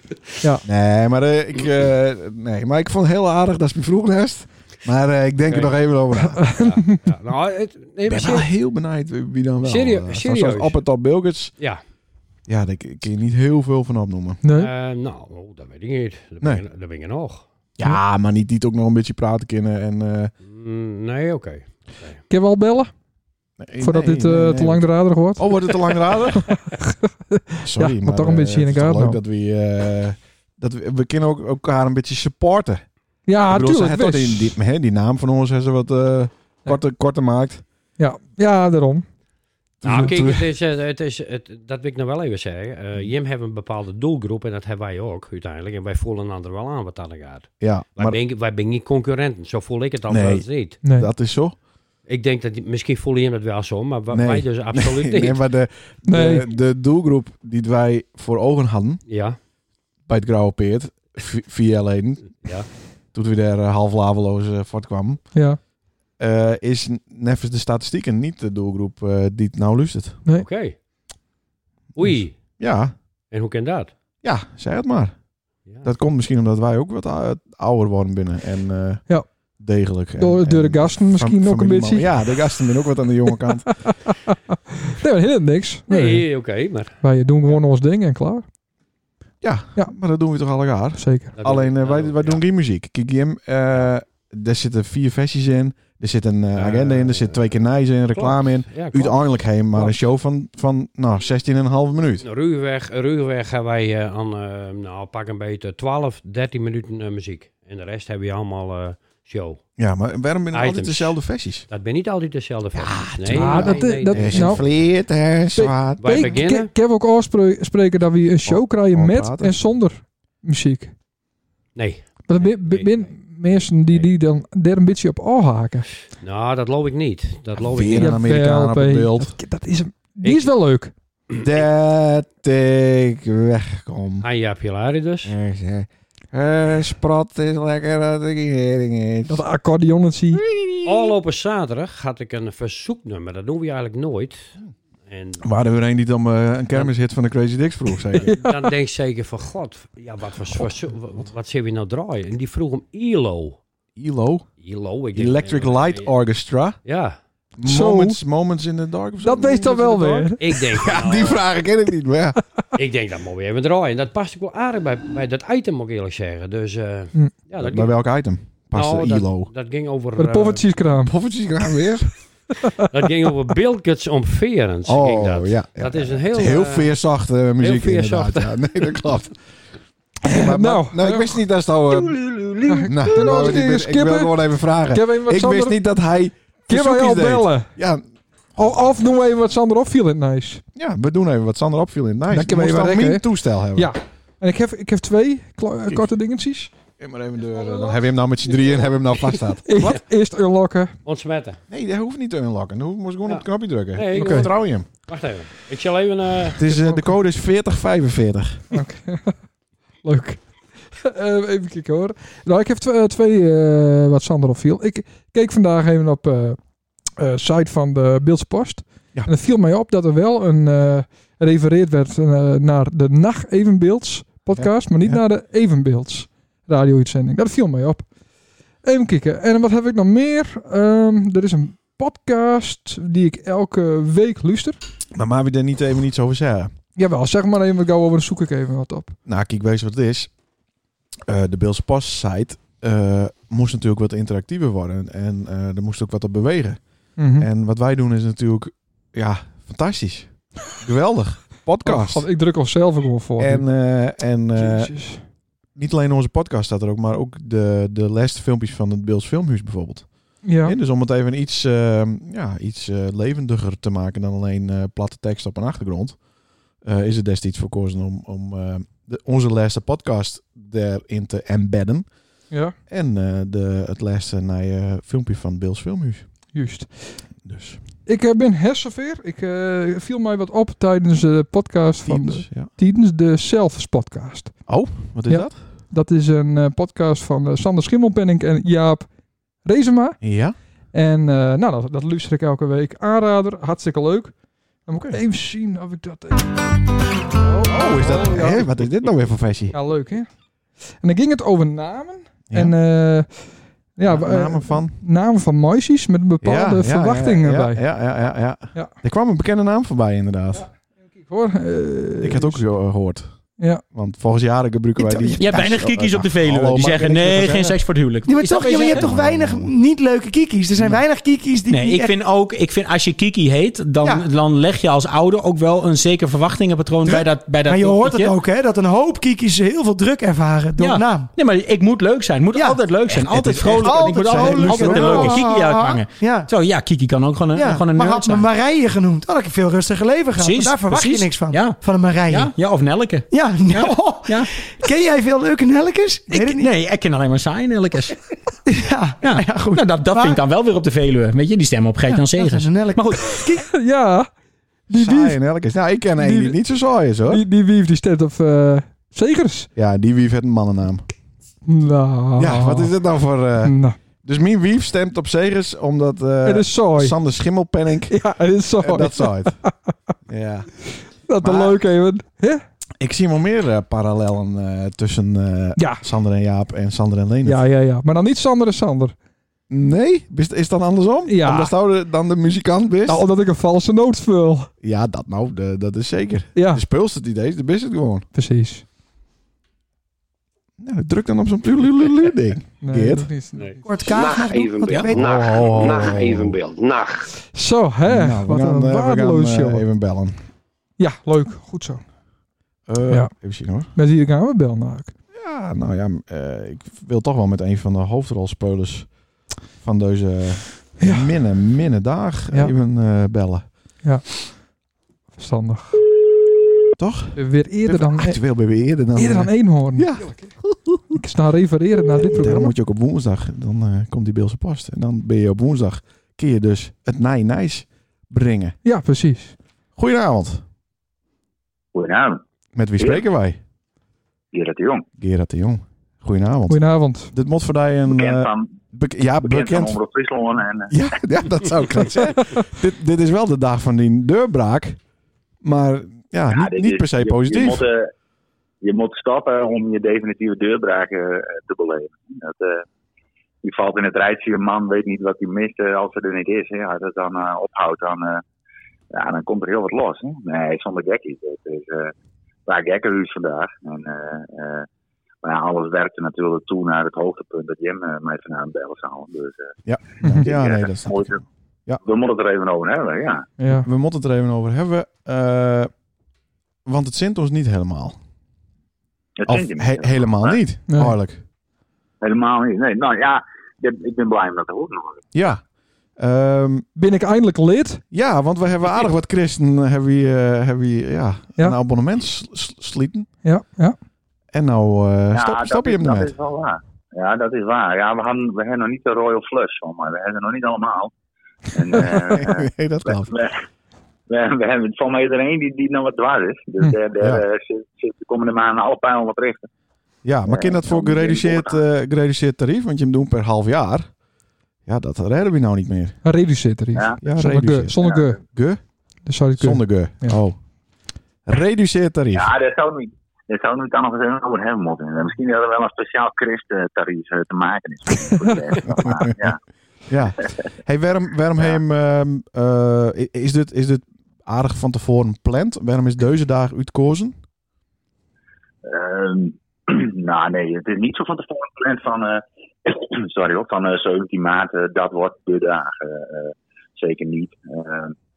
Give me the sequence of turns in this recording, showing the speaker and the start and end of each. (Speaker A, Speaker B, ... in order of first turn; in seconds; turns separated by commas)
Speaker A: 0.6-6.5, Speaker B: 5.5-5.7, Speaker C: 6.2-7.0, Speaker B: 6.6-8.5, Speaker A: 8.1-11.6, Speaker B: 9.6-10.8, Speaker A: 12.5-14.4, Speaker C: 14.4-14.7, Speaker B: 14.5-17.4, Speaker A: 17.8-20.3, Speaker B: 20.4-22.2, Speaker C: 22.3-22.9, Speaker A: 23.6-26.6, Speaker C: 23.8-29.2, Speaker A: 27.6-32.9, Speaker C: 33.2-34.5, Speaker A: 33.5-37.6, Speaker C: 38.0-39.0, Speaker A: 39.8-40.5, Speaker B: 39.8-50.8, Speaker A: 47.6-48.2, Speaker A: 50.1-51.5, Speaker C: 50.8-51.1, Speaker B: 52.1-55.4, Speaker A: 54.1-59.0, Speaker C: 56.1-56.5, Speaker B: 59.1-59.4, Speaker A: 60.1-62.5, Speaker A: 63.1-65.3, Speaker C: 65.3-65.6, Speaker A: 66.2-70.2, Speaker B: 70.4-70.8, Speaker B: 72.0-72.4, Speaker A: 72.0-72.9, Speaker B: 73.3-73.9, Speaker A: 74.2-75.2, Speaker A: 75.8-83.7, Speaker C: 80.2-82.4, Speaker C: 84.8-86.2, Speaker B: 85.9-87.0, Speaker C: 87.0-88.5, Speaker A: 89.4-102.2, Speaker C: 91.0-91.3, Speaker B: 91.3-92.4, Speaker B: 96.5-100.0, Speaker B: 102.2-109.6, Speaker A: 109.8-111.7, Speaker B: 110.5-114.7, Speaker A: 112.7-116.4, Speaker C: 113.3-114.6, Speaker C: 115.5-120.9, Speaker B: 116.0-116.7, Speaker A: 118.5-119.7, Speaker B: 121.7-124.1, Speaker C: 122.3-125.9, Speaker B: 126.1-128.2, Speaker A: 127.6-129.3, Speaker C: 128.0-130.9, Speaker B: 130.2-130.5, Speaker A: 131.3-134.2, Speaker B: 134.2-135.3, Speaker A: 135.2-139.4, Speaker C: 139.3-140.4, Speaker A: 140.3-141.1, Speaker B: 140.8-144.5, Speaker B: 145.1-145.4, Speaker A: 145.4-148.3, Speaker B: 148.1-153.6, Speaker C: 148.2-148.7, Speaker A: 153.9-154.5, Speaker B: 154.6-156.1, Speaker A: 155.1-156.8, Speaker B: 156.8-157.2, Speaker A: 157.6-162.4, Speaker C: 157.6-158.2, Speaker C: 159.2-160.4, Speaker B: 160.4-161.4, Speaker B: 162.7-168.0, Speaker A: 167.6-169.5, Speaker B: 168.7-170.7, Speaker C: 170.2-171.1, Speaker A: 171.0-172.1, Speaker B: 172.8-176.9, Speaker A: 174.8-179.4, Speaker B: 177.6-179.0, Speaker A: 180.2-182.2, Speaker C: 180.3-181.3, Speaker B: 182.2-182.9, Speaker C: 182.6-185.8, Speaker A: 182.9-188.0, Speaker C: 186.7-187.7, Speaker C: 188.6-190.6, Speaker A: 190.7-193.9, Speaker C: 192.3-196.7, Speaker A: 197.0-199.7, Speaker B: 197.5-198.0, Speaker B: 198.5-198.9, Speaker C: 199.7-200.9, Speaker B: 201.0-201.6, Speaker A: 201.7-204.9, Speaker B: 203.2-206.6, Speaker C: 204.1-204.5, Speaker A: 206.5-208.6, Speaker C: 206.7-207.1, Speaker C: 208.7-209.4, Speaker C: 210.0-216.6, Speaker C: 217.2-228.1, Speaker A: 224.5-225.2, Speaker C: 228.8-234.8, Speaker A: 235.1-236.7, Speaker C: 236.9-239.2, Speaker A: 239.2-240.3, Speaker A: 241.2-246.8, Speaker C: 247.2-247.5, Speaker A: 247.3-252.2, Speaker C: 251.8-253.7, Speaker A: 253.4-255.2, Speaker C: 254.5-255.2, Speaker A: 255.7-266.2, Speaker C: 260.4-260.7, Speaker A: 266.8-272.1, Speaker C: 272.5-272.8, Speaker A: 272.9-276.3, Speaker C: 276.5-277.2, Speaker A: 277.4-277.8, Speaker C: 278.1-289.1, Speaker A: 282.1-282.7, Speaker A: 284.7-285.6, Speaker C: 289.6-290.2, Speaker A: 290.2-290.6, Speaker C: 290.9-296.6, Speaker A: 294.9-295.2, Speaker C: 297.4-298.7, Speaker A: 297.7-299.7, Speaker C: 299.7-300.3, Speaker C: 300.9-307.8, Speaker A: 302.5-302.8, Speaker A: 304.0-305.0, Speaker A: 306.4-310.7, Speaker C: 311.2-312.6, Speaker A: 312.2-317.8, Speaker C: 313.6-313.8, Speaker D: 315.0-315.9, Speaker E: 315.4-319.1, Speaker D: 318.2-322.1, Speaker A: 318.9-319.7, Speaker E: 321.7-328.3, Speaker D: 324.0-324.3, Speaker D: 327.0-331.3, Speaker E: 330.8-338.5, Speaker D: 332.5-336.5, Speaker A: 333.6-335.5, Speaker D: 337.5-342.6, Speaker E: 340.4-344.5, Speaker D: 343.3-346.7, Speaker E: 346.4-348.2, Speaker D: 348.7-350.4, Speaker E: 349.2-353.4, Speaker D: 352.3-353.6, Speaker C: 353.6-354.3, Speaker C: 354.9-355.4, Speaker A: 354.9-357.4, Speaker C: 356.2-356.6, Speaker C: 357.3-359.7, Speaker A: 359.7-361.1, Speaker C: 361.6-362.9, Speaker A: 362.4-369.6, Speaker C: 363.6-364.0, Speaker C: 366.4-367.1, Speaker C: 368.1-369.9, Speaker A: 370.3-370.7, Speaker C: 371.2-372.6, Speaker A: 371.4-371.8, Speaker A: 373.0-377.6, Speaker C: 375.8-376.0, Speaker C: 377.4-379.1, Speaker A: 379.7-383.2, Speaker C: 381.2-381.7, Speaker C: 383.1-384.7, Speaker A: 384.8-388.3, Speaker C: 386.5-386.8, Speaker C: 388.3-388.8, Speaker A: 390.8-393.3, Speaker C: 392.8-393.9, Speaker D: 393.8-395.3, Speaker F: 394.1-397.3, Speaker A: 394.9-396.6, Speaker C: 397.5-399.8, Speaker A: 398.0-400.4, Speaker C: 401.0-402.0, Speaker A: 402.9-403.9, Speaker C: 403.9-405.1, Speaker A: 405.3-409.1, Speaker A: 409.7-413.7, Speaker C: 411.0-411.3, Speaker C: 414.0-414.5, Speaker C: 415.4-416.0, Speaker A: 417.0-421.1, Speaker C: 417.3-418.4, Speaker C: 419.1-420.5, Speaker C: 421.1-422.7, Speaker A: 422.3-428.8, Speaker C: 428.8-429.6, Speaker A: 429.9-430.6, Speaker G: 431.9-432.4, Speaker A: 432.7-433.6, Speaker G: 434.5-435.0, Speaker A: 435.2-439.9, Speaker C: 436.7-437.3, Speaker G: 438.1-438.8, Speaker G: 439.4-440.9, Speaker A: 440.9-445.0, Speaker A: 445.6-447.9, Speaker G: 446.5-448.1, Speaker G: 448.8-452.8, Speaker G: 453.6-458.4, Speaker G: 459.1-462.1, Speaker G: 462.6-464.9, Speaker G: 465.4-469.7, Speaker A: 469.8-472.0, Speaker G: 470.3-471.4, Speaker G: 472.0-473.5, Speaker C: 473.6-473.9, Speaker A: 473.6-475.9, Speaker A: 476.8-478.2, Speaker G: 479.4-480.6, Speaker A: 479.5-481.4, Speaker C: 480.9-481.1, Speaker G: 482.2-485.2, Speaker A: 485.3-485.6, Speaker A: 486.1-486.9, Speaker C: 486.9-488.0, Speaker A: 488.1-493.3, Speaker C: 493.4-493.9, Speaker A: 494.5-496.3, Speaker G: 495.3-501.1, Speaker G: 501.7-503.6, Speaker A: 502.0-503.3, Speaker G: 504.3-509.7, Speaker A: 510.2-514.1, Speaker G: 510.5-511.8, Speaker A: 514.8-516.2, Speaker C: 516.2-518.4, Speaker G: 516.9-517.2, Speaker A: 517.2-518.8, Speaker G: 517.9-518.3, Speaker C: 519.2-520.4, Speaker A: 519.5-520.6, Speaker A: 521.4-522.5, Speaker G: 522.3-529.6, Speaker A: 528.9-529.4, Speaker A: 530.1-537.4, Speaker G: 538.8-548.1